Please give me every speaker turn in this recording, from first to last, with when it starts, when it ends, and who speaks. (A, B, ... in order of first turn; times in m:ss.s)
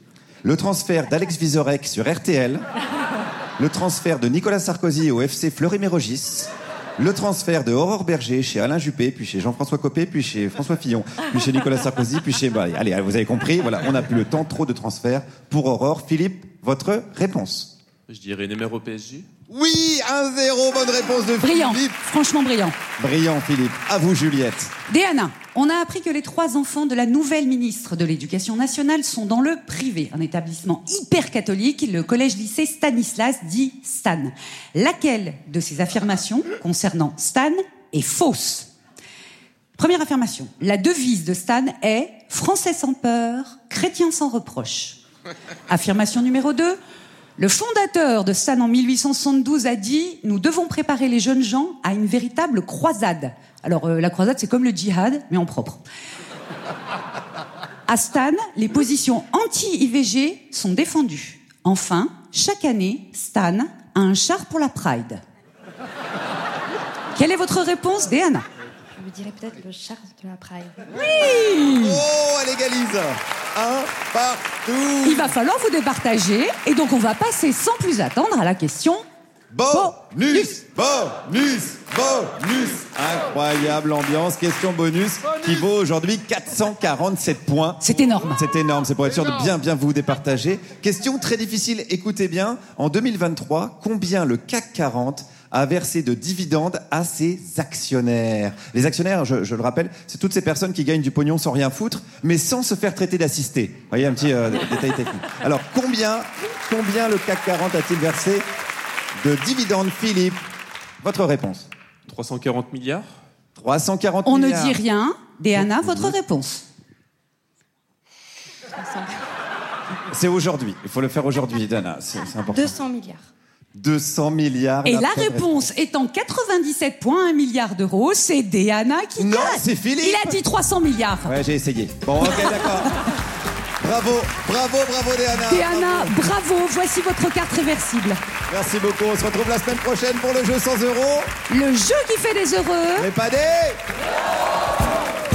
0:00.4-0:02.6 A
0:03.6-0:17.7 A
0:18.1-0:19.3 B
0:19.5-0:22.0 A
0:21.4-0:22.8 C
0:23.0-0:24.7 A
0:24.9-0:38.7 C
0:39.8-0:45.0 C
0:45.7-0:46.8 C
0:47.4-0:55.8 C
0:57.9-1:05.2 C
1:07.1-1:08.4 C
1:09.0-1:10.8 D
1:10.9-1:12.0 C
1:11.8-1:15.3 A
1:15.0-1:19.0 C
1:19.5-1:48.4 A
1:19.7-1:20.5 C
1:27.8-1:28.4 C
1:49.2-1:50.4 A
1:51.0-1:51.7 A
1:52.1-1:53.0 B
1:53.6-1:54.8 A
1:54.2-1:56.6 C
1:55.6-1:56.1 A
1:58.7-1:59.2 D
2:00.1-2:02.8 A
2:02.5-2:03.3 D
2:03.8-2:05.6 A
2:04.8-2:11.3 C
2:09.2-2:10.4 A
2:11.2-2:13.2 A
2:13.8-2:16.2 A
2:15.4-2:18.2 C
2:18.5-2:21.3 A
2:21.5-2:23.1 C
2:23.0-2:23.8 A